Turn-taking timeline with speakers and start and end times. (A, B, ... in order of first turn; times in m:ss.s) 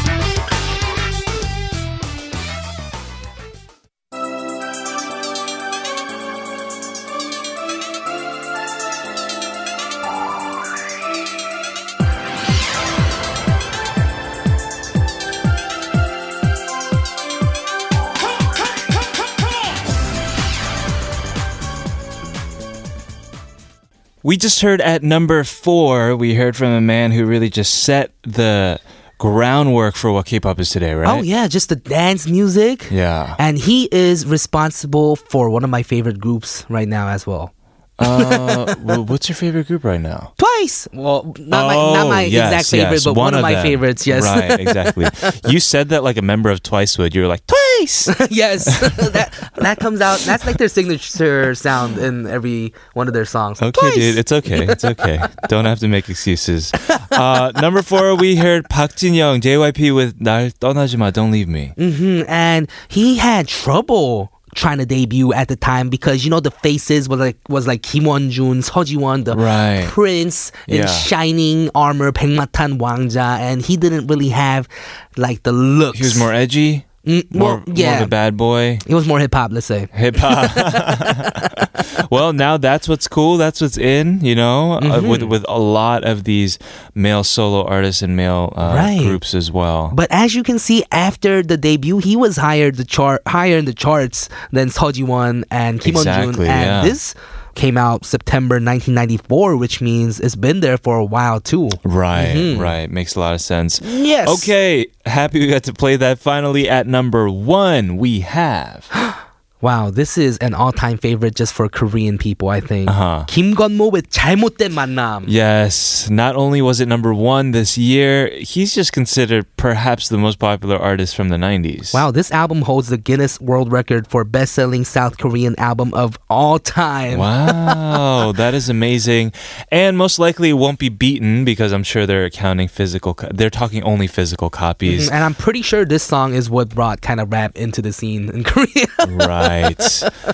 0:24.2-0:31.2 A
0:31.0-0:37.5 B
0:32.9-0:33.4 A
0:38.0-0:40.3 A
0:38.0-0:38.9 B
0:40.4-0:45.1 B
0:41.5-0:49.6 A
0:48.1-0:54.8 B
0:50.2-0:50.4 A
0:53.6-1:01.7 A
1:01.8-1:16.3 B
1:09.3-1:09.9 A
1:10.7-1:11.1 A
1:15.9-1:18.8 A
1:17.0-1:18.1 B
1:18.8-1:21.6 B
1:19.9-1:30.0 A
1:24.8-1:25.3 B
1:28.6-1:29.2 B
1:29.9-1:42.7 B
1:35.8-1:37.0 A
1:41.8-1:48.9 A
1:43.8-1:44.5 B
1:49.0-1:55.3 B
1:52.9-1:53.3 A
1:55.2-2:02.0 A
2:01.9-2:07.8 B
2:07.1-2:15.1 A
2:14.9-2:20.1 B
2:19.0-2:20.1 A